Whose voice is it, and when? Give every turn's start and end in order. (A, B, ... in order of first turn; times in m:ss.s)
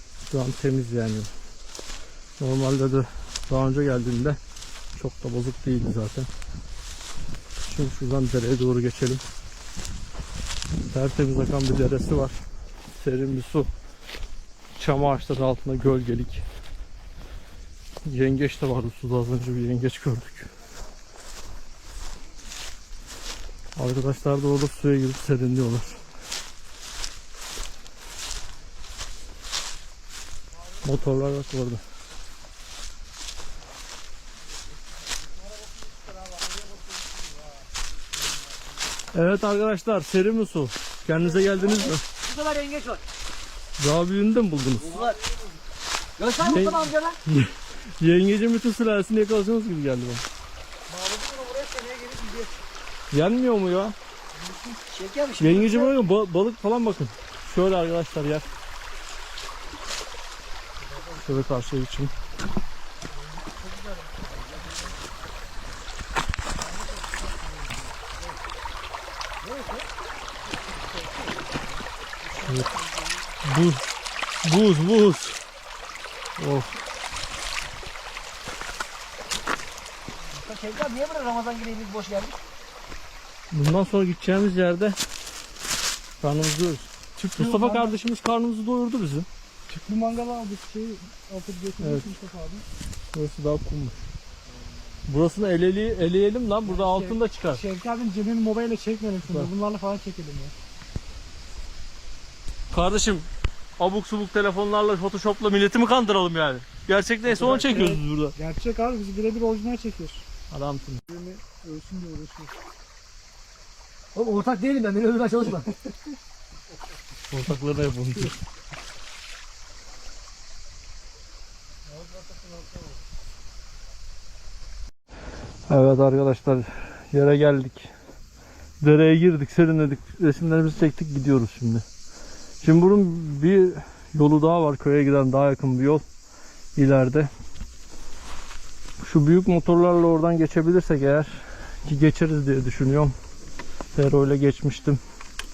0:00.3-0:01.3 A
0:02.4-0:04.4 A
0:04.9-0:06.3 A
0:07.7-0:09.2 A
0:10.8-0:13.7 A
0:14.8-0:16.4 A
0:18.0-0:20.5 A
0:23.8-0:26.0 A
0:30.8-0:31.8 A
0:39.1-0:42.0 A
0:42.2-0:43.0 B
0:43.8-0:45.0 A
0:44.8-0:45.2 B
0:46.2-0:47.2 B
0:46.4-0:50.2 A
0:50.9-0:52.3 C
0:51.4-0:52.5 B
0:53.1-0:54.0 A
0:54.9-0:55.9 B
0:55.4-0:58.5 A
1:01.1-1:02.1 A
1:12.4-1:12.7 A
1:13.4-1:13.8 A
1:14.4-1:15.4 A
1:16.4-1:16.7 A
1:20.4-1:22.4 B
1:23.5-1:25.0 A
1:26.2-1:29.3 A
1:27.2-1:28.0 C
1:29.7-1:32.6 C
1:31.8-1:32.1 A
1:33.1-1:34.0 A
1:35.1-1:37.6 A
1:36.6-1:40.5 C
1:42.7-1:43.3 A
1:43.8-1:48.4 A
1:47.3-1:50.2 C
1:50.5-1:51.1 A
1:51.1-1:52.5 C
1:54.2-1:55.7 B
1:57.3-1:58.4 A
2:05.7-2:07.9 A
2:08.8-2:11.8 A
2:12.6-2:16.0 A
2:16.8-2:17.3 A
2:19.0-2:23.1 A
2:23.9-2:25.0 A